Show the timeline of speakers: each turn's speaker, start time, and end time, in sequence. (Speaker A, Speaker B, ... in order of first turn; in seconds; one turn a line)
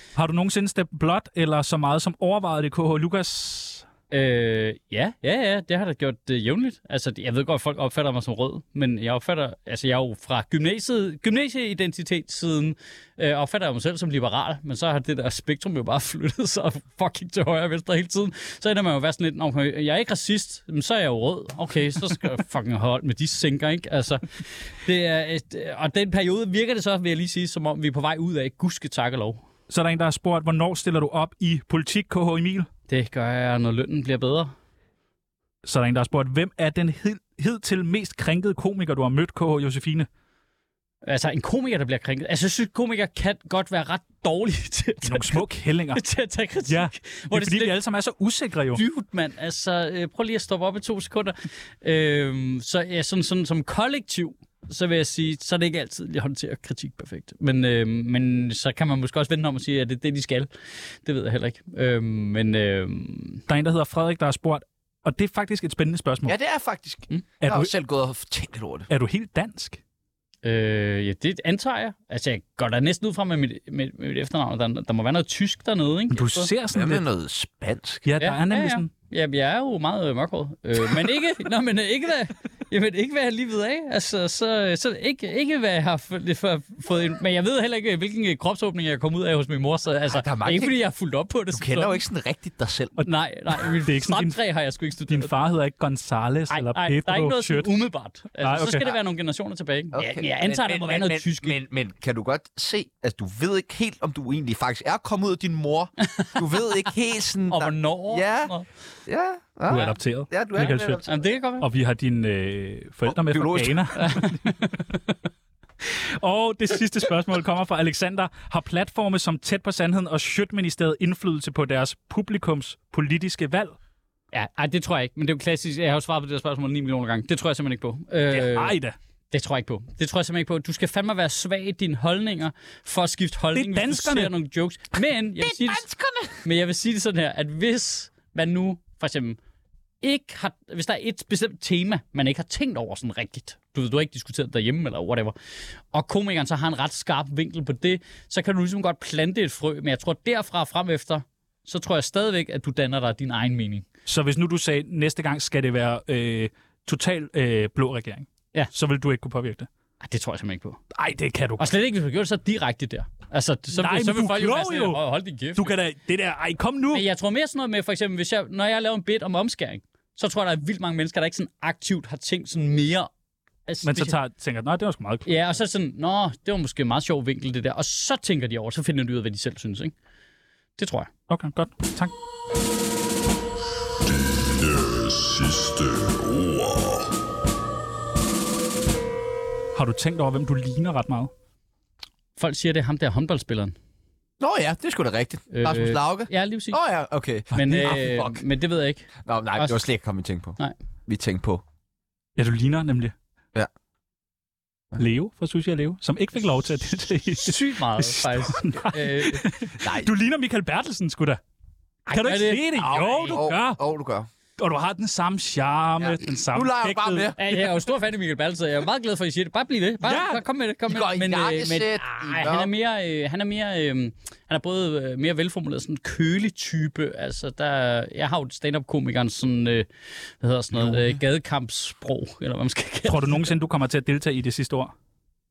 Speaker A: 0.2-3.8
Speaker B: 4.1-29.4
Speaker A: 29.7-32.7
Speaker B: 32.9-34.5
Speaker A: 35.6-40.1
Speaker B: 41.0-47.8
Speaker A: 45.0-46.0
Speaker A: 46.7-48.8
Speaker B: 48.7-60.5
Speaker B: 61.0-63.4
Speaker A: 63.5-66.4
Speaker C: 66.3-68.9
Speaker A: 67.4-67.7
Speaker A: 68.9-69.8
Speaker B: 70.4-76.5
Speaker A: 76.1-77.0
Speaker C: 76.7-78.1
Speaker A: 78.0-78.9
Speaker B: 78.2-92.0
Speaker C: 90.1-90.8
Speaker C: 91.5-93.0
Speaker A: 93.0-94.4
Speaker B: 93.1-95.3
Speaker A: 95.1-97.7
Speaker B: 96.5-101.6
Speaker A: 98.4-99.0
Speaker C: 99.9-108.5
Speaker B: 106.0-106.7
Speaker B: 107.5-108.7
Speaker C: 109.1-111.2
Speaker A: 109.7-111.0
Speaker B: 111.0-111.7
Speaker A: 111.6-114.8
Speaker C: 113.1-114.0
Speaker B: 114.0-114.8
Speaker A: 116.2-123.8
Speaker B: 124.3-128.8
Speaker A: 128.3-129.0
Speaker B: 129.3-135.9
Speaker A: 133.6-134.3
Speaker C: 135.4-136.3
Speaker B: 136.4-139.4
Speaker B: 140.0-145.3
Speaker B: 145.9-153.8
Speaker A: 154.1-159.7
Speaker B: 160.0-160.8
Speaker A: 160.9-161.7
Speaker B: 161.6-165.8
Speaker A: 163.7-165.0
Speaker A: 165.6-167.1
Speaker B: 166.9-173.1
Speaker B: 173.7-174.2
Speaker A: 173.8-175.3
Speaker B: 175.2-179.9
Speaker B: 180.8-181.1
Speaker A: 181.3-182.1
Speaker A: 189.7-191.3
Speaker B: 192.4-193.8
Speaker C: 194.4-198.4
Speaker B: 195.5-196.8
Speaker B: 197.5-199.9
Speaker A: 197.6-197.9
Speaker C: 199.2-201.6
Speaker A: 202.4-203.1
Speaker A: 205.0-211.4
Speaker B: 207.4-209.5
Speaker C: 209.8-210.1
Speaker B: 212.1-213.5
Speaker A: 212.1-213.8
Speaker C: 212.7-214.3
Speaker A: 214.6-217.5
Speaker C: 216.5-217.4
Speaker B: 217.4-229.9
Speaker A: 220.0-220.4
Speaker C: 220.9-222.7
Speaker B: 230.4-233.5
Speaker A: 230.8-231.2
Speaker A: 233.1-234.9